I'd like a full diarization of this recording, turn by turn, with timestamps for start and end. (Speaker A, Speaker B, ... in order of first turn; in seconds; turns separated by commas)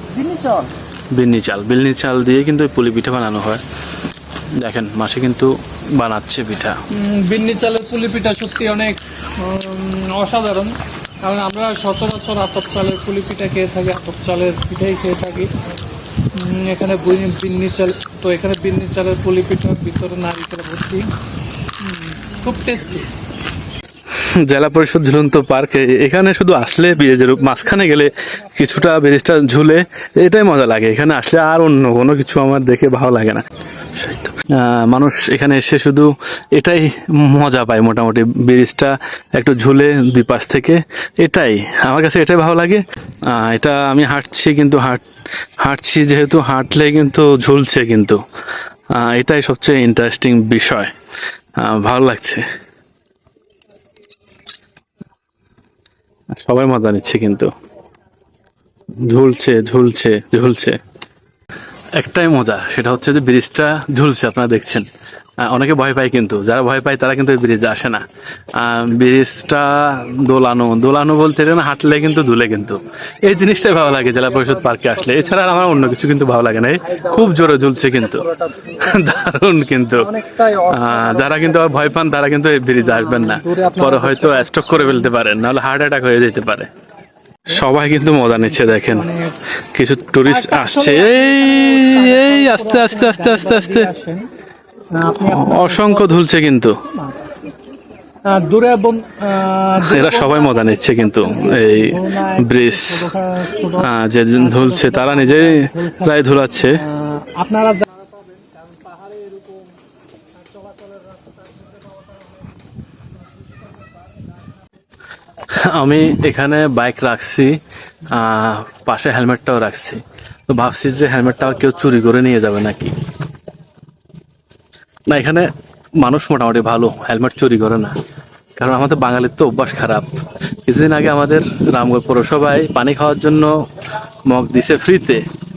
Speaker A: 0.1-0.7, Speaker B: 1.1-3.6, Speaker B: 4.6-6.8, Speaker A: 6.9-15.5, Speaker A: 16.3-21.1, Speaker A: 21.8-23.1, Speaker B: 24.2-45.0, Speaker B: 45.6-48.2, Speaker B: 48.9-50.9, Speaker B: 51.6-52.4, Speaker B: 56.3-57.5, Speaker B: 59.0-60.8, Speaker B: 62.0-64.9, Speaker B: 65.4-68.0, Speaker B: 68.5-80.1, Speaker A: 78.5-78.8, Speaker A: 80.0-81.7, Speaker B: 80.7-86.7, Speaker A: 82.8-85.0, Speaker B: 87.5-89.0, Speaker A: 88.7-89.4, Speaker B: 89.6-93.9, Speaker A: 90.2-94.3, Speaker A: 94.9-96.2, Speaker B: 95.2-96.8, Speaker A: 96.9-97.3, Speaker A: 98.2-108.0, Speaker B: 99.8-103.1, Speaker B: 103.7-106.8, Speaker B: 115.5-122.9, Speaker B: 125.1-125.5, Speaker B: 126.0-127.9, Speaker B: 128.6-130.1, Speaker B: 130.7-133.5, Speaker B: 134.3-135.2